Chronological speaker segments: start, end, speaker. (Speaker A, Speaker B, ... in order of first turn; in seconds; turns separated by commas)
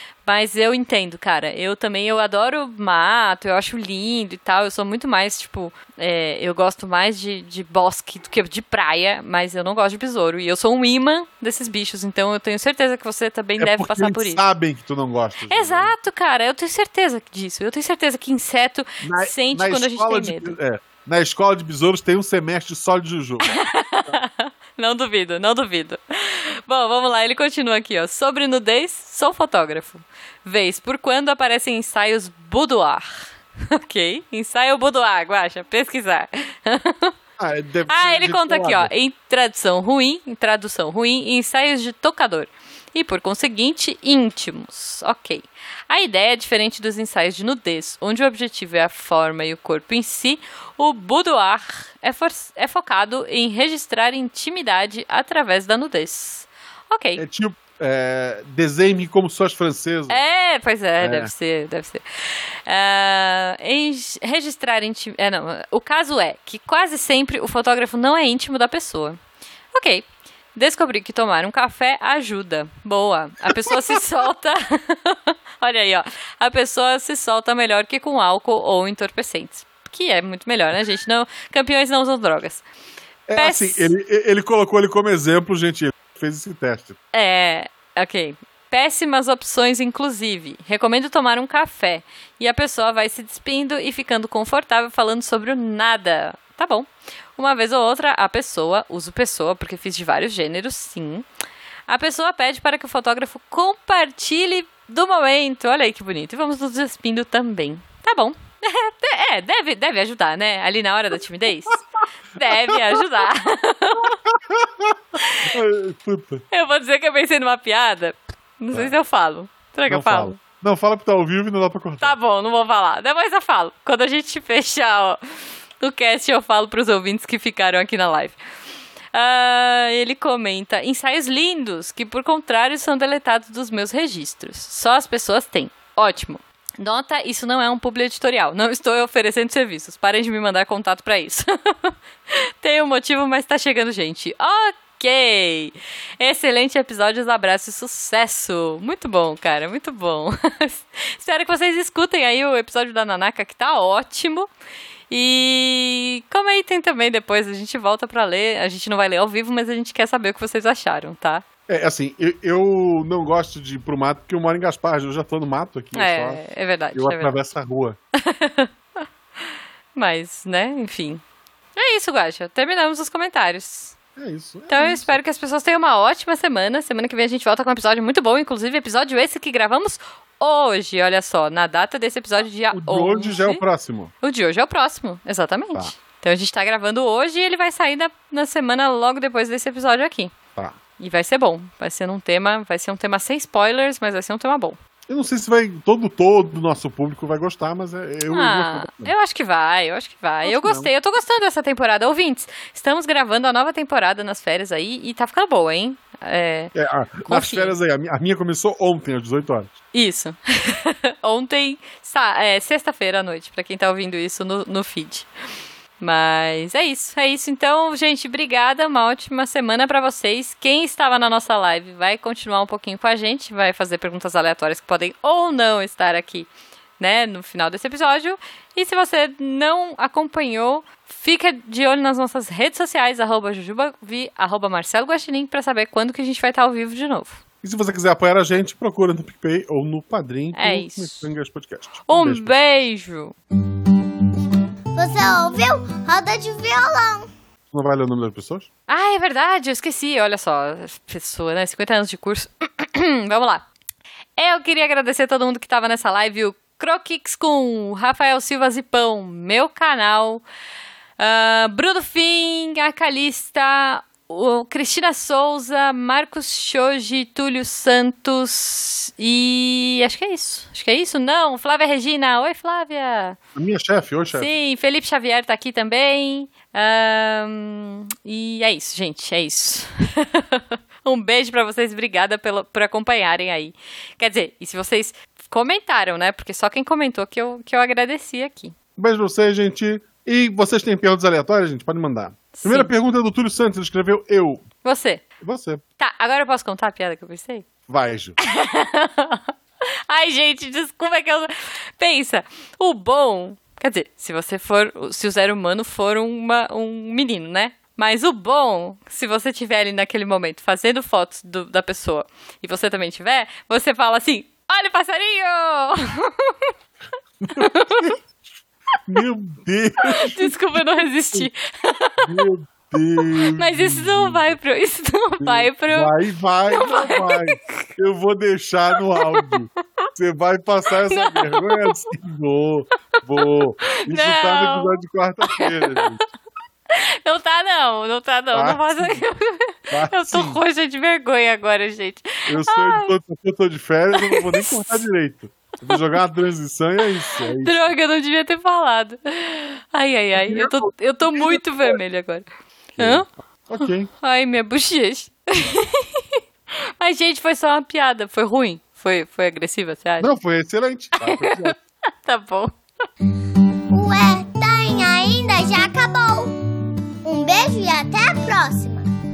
Speaker A: 0.2-14.4, Speaker B: 13.6-15.9, Speaker A: 15.5-20.6, Speaker B: 19.0-24.2, Speaker A: 23.5-37.1, Speaker B: 37.4-38.9, Speaker A: 37.9-57.2, Speaker B: 57.2-60.2, Speaker A: 60.1-62.0, Speaker B: 61.0-61.3, Speaker A: 62.6-69.2, Speaker A: 69.7-82.6, Speaker B: 83.3-87.0, Speaker A: 83.3-83.9, Speaker A: 87.1-101.2, Speaker A: 101.9-111.8, Speaker A: 112.3-114.2, Speaker B: 112.4-113.0, Speaker B: 114.0-116.4, Speaker A: 116.5-120.4, Speaker B: 118.7-119.0, Speaker B: 119.9-122.2, Speaker A: 122.0-125.2, Speaker A: 125.8-128.4, Speaker A: 129.1-141.9, Speaker A: 142.6-154.5, Speaker A: 155.1-161.4, Speaker B: 161.7-168.0, Speaker A: 165.9-167.4, Speaker A: 168.2-168.7, Speaker A: 169.9-171.2, Speaker A: 171.8-174.0, Speaker B: 174.2-175.2, Speaker A: 174.7-183.6, Speaker B: 182.6-184.1, Speaker A: 184.2-190.3, Speaker A: 191.0-194.8, Speaker B: 195.1-199.1, Speaker A: 198.3-206.7, Speaker B: 200.4-200.9, Speaker B: 206.7-209.7, Speaker A: 207.2-207.8, Speaker A: 209.9-215.3, Speaker A: 216.0-237.4, Speaker B: 237.6-242.6, Speaker A: 240.5-241.3, Speaker A: 242.1-243.3, Speaker C: 244.9-247.3, Speaker B: 247.7-248.7, Speaker A: 248.9-253.6, Speaker A: 254.4-260.4, Speaker A: 261.2-273.4, Speaker B: 273.6-274.5, Speaker A: 274.3-288.7, Speaker B: 289.0-294.6, Speaker A: 292.5-292.9, Speaker A: 294.8-295.2, Speaker B: 295.4-295.8, Speaker A: 296.0-297.6, Speaker B: 297.9-298.4, Speaker A: 298.4-299.5, Speaker A: 300.1-316.7, Speaker B: 317.4-318.2, Speaker A: 317.5-318.1, Speaker B: 319.1-321.5, Speaker A: 320.1-322.4, Speaker B: 322.2-324.6, Speaker A: 323.4-326.1, Speaker B: 325.4-336.2, Speaker A: 326.7-327.9, Speaker A: 331.0-332.0, Speaker A: 334.0-336.1, Speaker A: 336.9-343.1, Speaker B: 338.5-339.2, Speaker B: 339.9-340.6, Speaker B: 342.4-347.9, Speaker A: 344.1-345.1, Speaker A: 347.6-353.3, Speaker B: 350.4-352.0, Speaker B: 353.0-354.1, Speaker A: 353.8-356.4, Speaker A: 357.0-360.3, Speaker B: 360.2-361.7, Speaker A: 361.2-361.7, Speaker A: 362.2-362.7, Speaker C: 363.9-366.6, Speaker C: 367.2-369.1